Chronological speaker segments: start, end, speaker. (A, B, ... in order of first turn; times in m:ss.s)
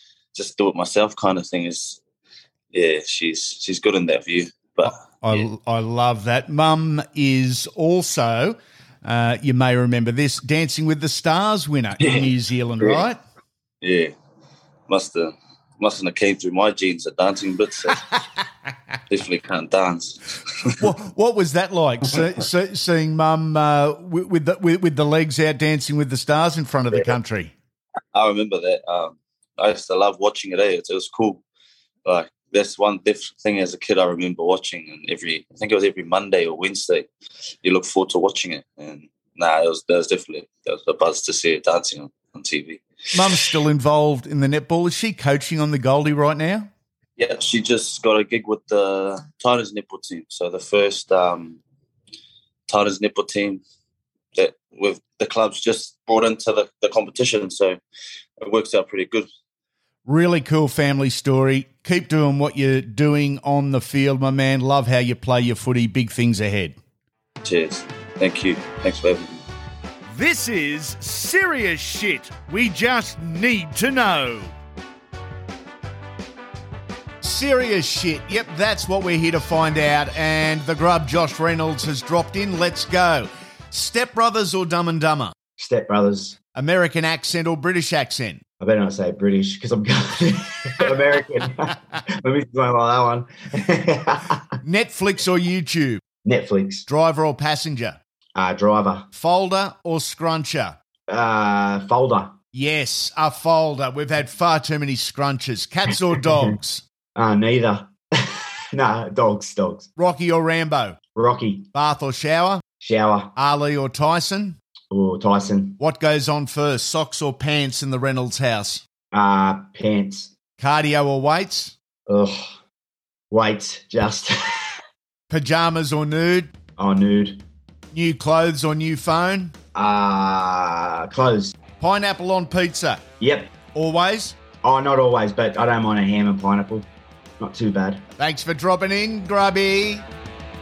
0:00.3-0:02.0 A
0:02.7-0:05.4 A
0:05.2-0:13.2 B
0:12.0-0:12.3 A
0:12.8-0:13.1 A
0:13.8-0:14.1 A
0:14.9-0:18.0 A
0:19.1-0:20.2 A
0:20.8-0:27.5 B
0:28.1-0:31.4 A
0:32.0-0:37.1 A
0:37.6-0:42.8 A
0:43.1-0:46.7 B
0:47.2-0:51.6 A
0:52.7-0:53.6 A
0:54.4-0:57.8 A
0:58.4-0:59.3 A
1:00.1-1:06.8 B
1:07.4-1:09.4 A
1:10.1-1:14.5 B
1:17.2-1:25.3 B
1:25.6-1:26.4 C
1:26.6-1:28.4 B
1:28.6-1:34.4 C
1:34.6-1:36.0 B
1:36.2-1:36.9 C
1:36.9-1:38.0 B
1:38.4-1:39.1 C
1:39.1-1:40.8 B
1:41.1-1:42.4 C
1:42.5-1:46.8 B
1:47.2-1:49.9 C
1:50.0-1:51.0 B
1:51.2-1:51.7 C
1:51.7-1:52.6 B
1:52.8-1:53.3 C
1:53.4-1:54.6 B
1:54.9-1:55.8 C
1:55.8-1:58.8 B
1:59.1-2:00.3 C
2:00.6-2:01.7 B
2:02.1-2:02.6 C
2:03.3-2:04.6 C
2:05.3-2:06.5 B
2:06.8-2:07.4 C
2:07.9-2:09.5 B
2:09.8-2:11.5 C
2:11.8-2:13.0 B
2:13.2-2:13.5 C
2:13.7-2:14.4 B
2:14.6-2:16.9 C
2:17.4-2:18.0 C
2:18.2-2:20.0 B